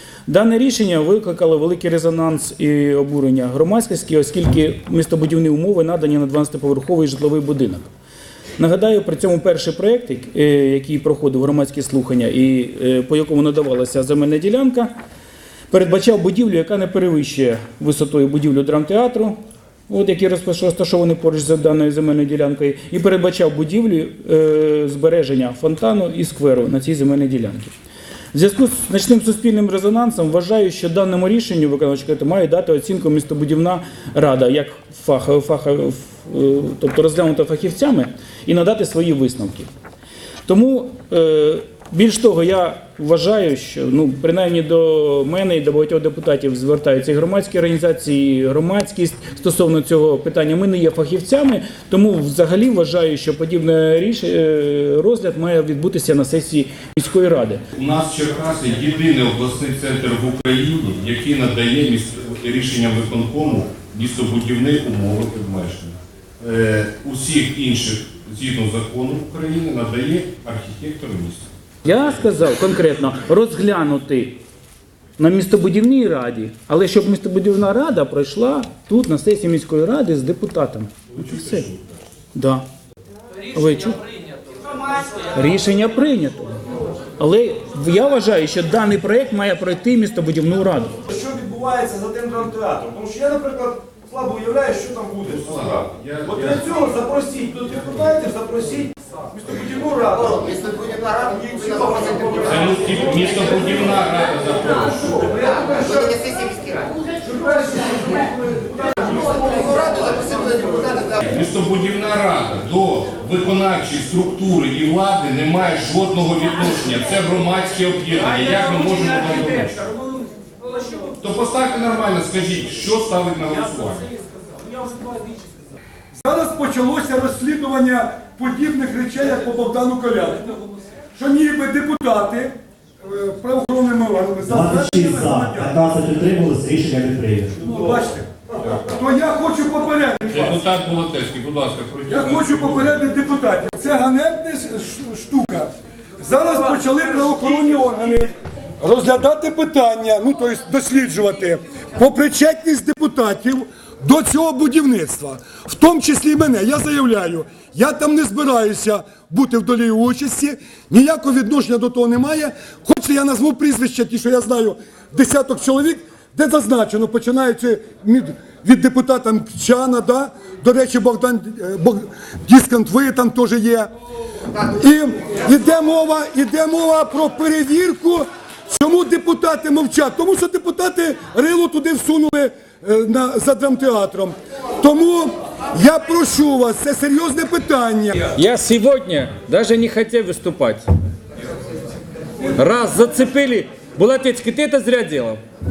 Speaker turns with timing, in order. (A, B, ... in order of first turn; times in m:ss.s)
0:00.3-0:07.9 A
0:08.6-0:14.9 A
0:15.7-0:19.4 A
0:19.9-0:27.7 A
0:28.3-0:39.7 A
0:40.4-0:57.6 A
0:57.7-1:12.2 B
1:11.8-1:14.4 A
1:15.2-1:21.7 A
1:21.2-1:22.0 B
1:22.3-1:22.6 A
1:23.5-1:24.0 A
1:25.3-1:26.6 A
1:27.2-1:31.0 A
1:31.1-1:43.8 C
1:35.3-1:36.7 B
1:42.4-1:45.3 B
1:45.2-1:51.1 C
1:51.1-1:59.9 B
2:01.0-2:04.1 B
2:06.1-2:10.6 D
2:11.1-2:15.7 D
2:14.5-2:17.7 E
2:17.6-2:20.6 D
2:20.3-2:23.0 B
2:22.1-2:53.9 D
2:54.5-3:08.3 D
3:08.3-3:10.8 F
3:12.5-3:15.4 F